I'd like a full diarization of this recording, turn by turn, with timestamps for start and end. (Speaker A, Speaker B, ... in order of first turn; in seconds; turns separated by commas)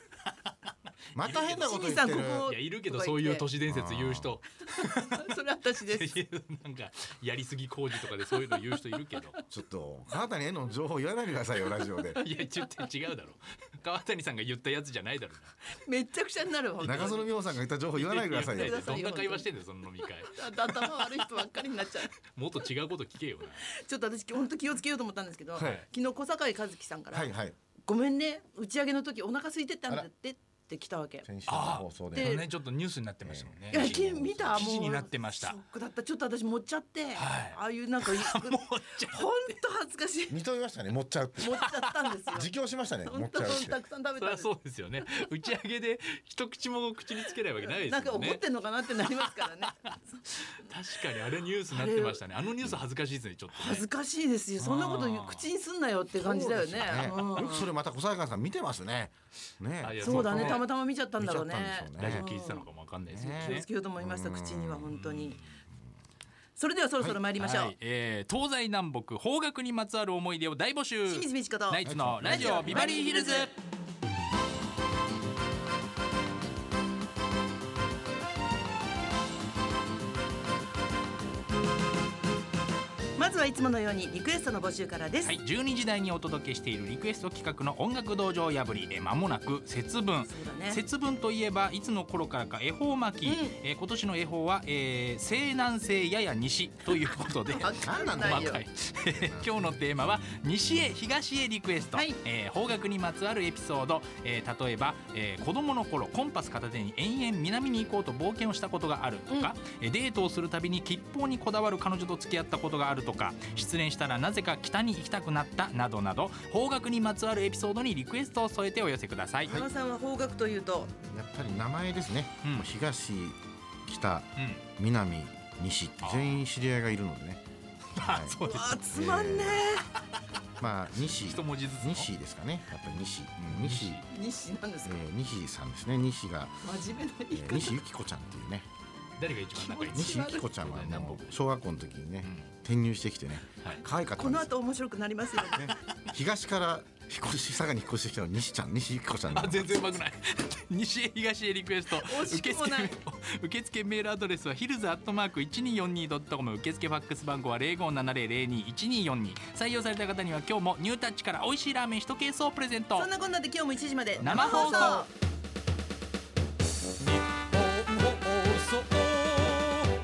Speaker A: 0.2-5.4, Speaker B: 1.1-2.5, Speaker C: 1.6-3.5, Speaker B: 3.7-4.4, Speaker C: 4.7-6.2, Speaker A: 5.9-9.3, Speaker C: 9.2-9.4, Speaker B: 9.5-12.2, Speaker A: 12.1-15.5, Speaker C: 15.8-17.3, Speaker B: 16.8-19.0, Speaker A: 17.9-21.4, Speaker C: 18.3-19.5, Speaker C: 20.2-22.1, Speaker A: 22.1-23.7, Speaker C: 23.6-27.3, Speaker B: 25.6-25.8, Speaker A: 25.6-25.9, Speaker B: 27.1-27.5, Speaker C: 27.9-31.3, Speaker B: 31.2-32.4, Speaker A: 31.5-35.6, Speaker C: 32.1-32.5, Speaker B: 33.2-34.7, Speaker C: 33.7-40.4, Speaker A: 37.1-39.4, Speaker B: 40.3-41.6, Speaker C: 41.4-42.5, Speaker A: 41.6-42.1, Speaker B: 42.3-43.8, Speaker C: 43.0-44.5, Speaker A: 44.1-53.9, Speaker C: 47.2-52.3, Speaker C: 53.5-57.7, Speaker A: 54.6-55.5, Speaker B: 56.2-62.3, Speaker A: 59.8-60.7, Speaker C: 60.0-62.7, Speaker A: 62.0-63.7, Speaker B: 63.1-64.9, Speaker C: 63.3-65.4, Speaker A: 64.9-65.6, Speaker C: 66.5-67.7, Speaker A: 67.3-73.5, Speaker C: 71.0-73.5, Speaker B: 71.8-72.8, Speaker C: 83.2-85.4, Speaker A: 85.2-119.6, Speaker C: 90.2-90.8, Speaker C: 93.2-93.6, Speaker C: 97.5-98.6, Speaker B: 97.8-99.9, Speaker C: 101.9-102.2, Speaker C: 109.3-109.5, Speaker C: 119.4-120.9, Speaker B: 121.0-127.4, Speaker A: 122.4-122.7, Speaker A: 124.4-124.6, Speaker A: 126.0-126.5, Speaker A: 127.9-128.8, Speaker B: 128.0-129.7, Speaker C: 128.4-129.9, Speaker B: 130.6-134.0, Speaker A: 131.0-132.1, Speaker A: 133.5-134.1, Speaker C: 134.1-135.1, Speaker B: 134.8-136.6, Speaker C: 136.6-137.8, Speaker B: 137.3-138.7, Speaker A: 139.2-141.4, Speaker C: 139.5-140.5, Speaker B: 139.9-144.5, Speaker A: 142.2-142.5, Speaker A: 143.5-143.8, Speaker C: 144.2-145.7, Speaker B: 145.5-150.0, Speaker A: 149.3-163.1, Speaker C: 151.9-153.0, Speaker C: 162.9-165.1, Speaker A: 164.2-165.1